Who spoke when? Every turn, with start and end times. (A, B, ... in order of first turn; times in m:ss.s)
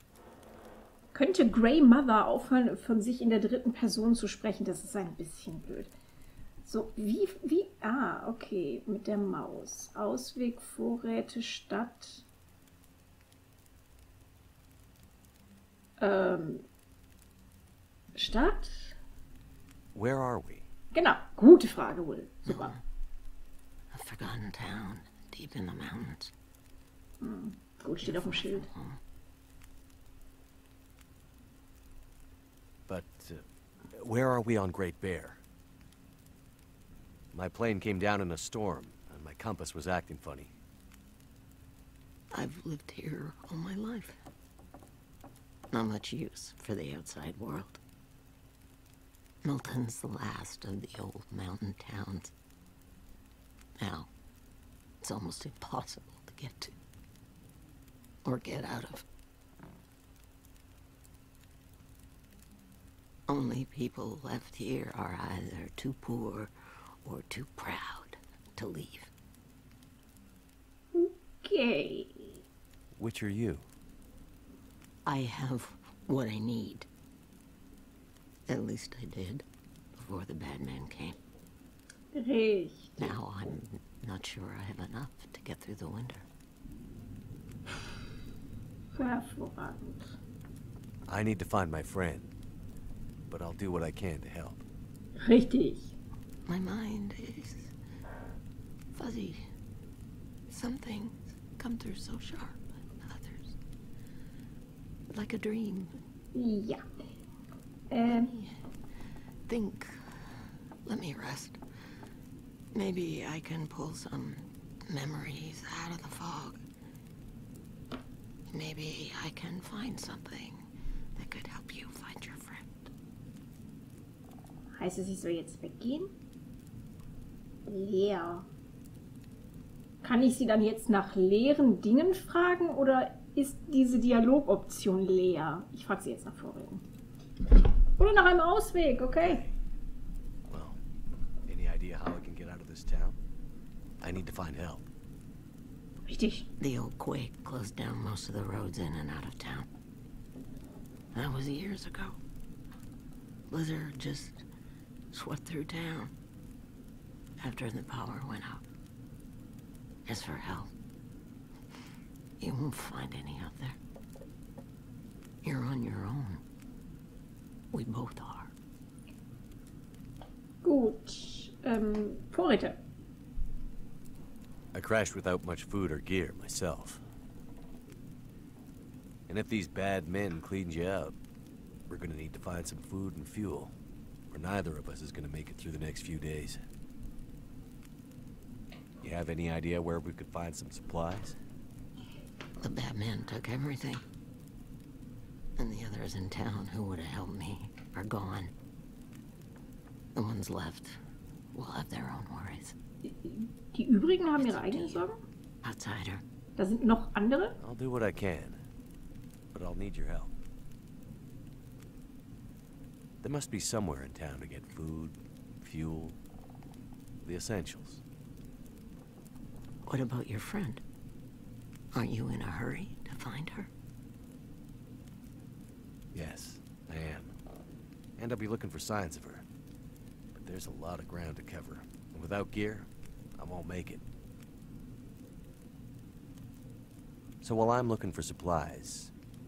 0:01.1-0:05.9 A
0:06.6-0:12.3 A
0:16.0-0:16.6 A
0:18.2-0:19.0 A
0:20.0-0:20.7 B
0:20.9-0:22.8 A
0:22.5-0:22.8 C
0:23.9-0:26.3 C
0:27.2-0:28.7 A
0:28.0-0:29.0 C
0:32.9-0:35.4 B
0:37.3-0:40.5 B
0:42.3-0:44.2 C
0:45.7-0:47.8 C
0:49.4-0:52.3 C
0:53.8-0:54.1 C
0:55.0-0:56.8 C
0:58.2-0:59.1 C
1:03.3-1:06.5 C
1:07.0-1:09.1 C
1:10.9-1:12.4 A
1:13.0-1:13.7 B
1:15.0-1:16.9 C
1:18.5-1:21.2 C
1:22.1-1:23.2 A
1:23.0-1:26.3 C
1:29.0-1:30.1 A
1:31.1-1:32.3 B
1:33.3-1:34.6 B
1:35.2-1:35.9 A
1:36.5-1:37.7 C
1:38.9-1:39.4 C
1:40.5-1:43.6 C
1:45.1-1:46.0 C
1:46.3-1:46.8 A
1:47.9-1:48.3 A
1:48.1-1:48.6 C
1:49.5-1:50.2 C
1:50.8-1:51.6 C
1:52.7-1:56.6 C
1:58.5-2:00.6 C
2:01.2-2:02.9 C
2:04.8-2:06.1 A
2:07.7-2:08.5 A
2:10.0-2:16.8 A
2:18.0-2:19.4 A
2:19.2-2:19.6 B
2:20.5-2:20.8 B
2:21.5-2:23.2 B
2:24.0-2:24.9 B
2:26.1-2:26.5 A
2:26.6-2:29.7 C
2:31.1-2:32.2 C
2:33.5-2:34.4 C
2:35.1-2:36.1 C
2:37.4-2:38.6 C
2:40.1-2:40.7 C
2:42.4-2:43.8 C
2:45.4-2:46.4 C
2:47.7-2:48.5 C
2:50.6-2:52.8 A
2:54.7-2:57.0 B
2:59.3-3:01.2 B
3:01.9-3:03.8 B
3:04.3-3:06.6 B
3:09.0-3:11.4 B
3:12.6-3:14.0 C
3:15.6-3:18.5 C
3:20.2-3:21.0 C
3:21.5-3:22.8 C
3:23.0-3:25.2 A
3:24.4-3:25.1 C
3:25.6-3:26.2 C
3:26.6-3:27.6 A
3:27.6-3:28.6 B
3:29.5-3:30.3 B
3:33.2-3:36.2 B
3:37.2-3:38.0 B
3:39.9-3:40.8 C
3:41.9-3:43.7 C
3:46.1-3:47.3 B
3:48.2-3:49.5 B
3:50.3-3:54.0 B
3:57.4-3:59.1 B